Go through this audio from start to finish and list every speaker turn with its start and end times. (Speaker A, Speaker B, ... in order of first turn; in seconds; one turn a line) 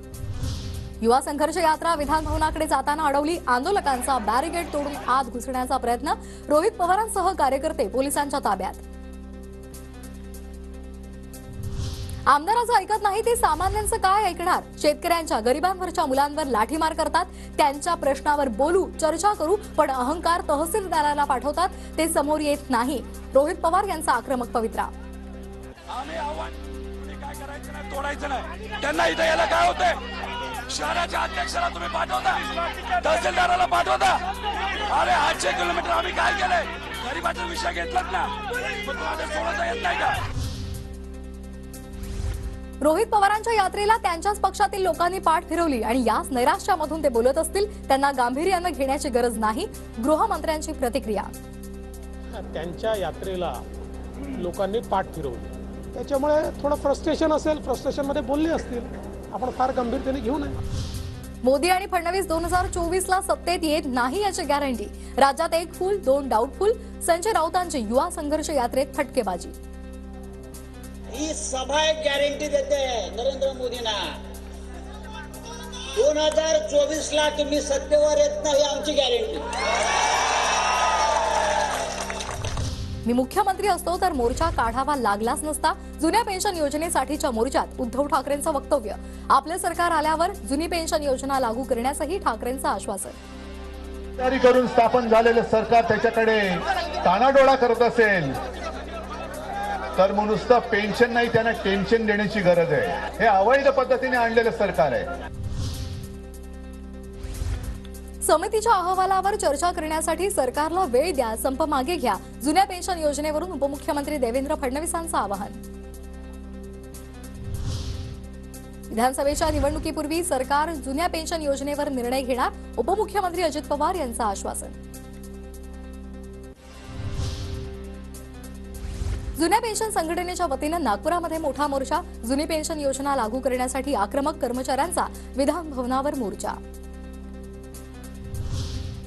Speaker A: 1.0-8.8
Speaker A: 12.3-24.9
Speaker B: 25.9-30.0
Speaker B: 30.7-34.2
Speaker B: 34.9-40.2
Speaker A: 42.8-51.3
Speaker C: 52.3-53.6
Speaker C: 54.3-60.6
Speaker A: 61.4-69.5
Speaker D: 71.1-74.1
Speaker D: 75.9-79.5
Speaker A: 83.0-93.2
Speaker E: 94.2-98.4
Speaker E: 100.0-105.1
Speaker A: 108.2-115.6
Speaker A: 118.9-124.8
Speaker A: 129.3-136.6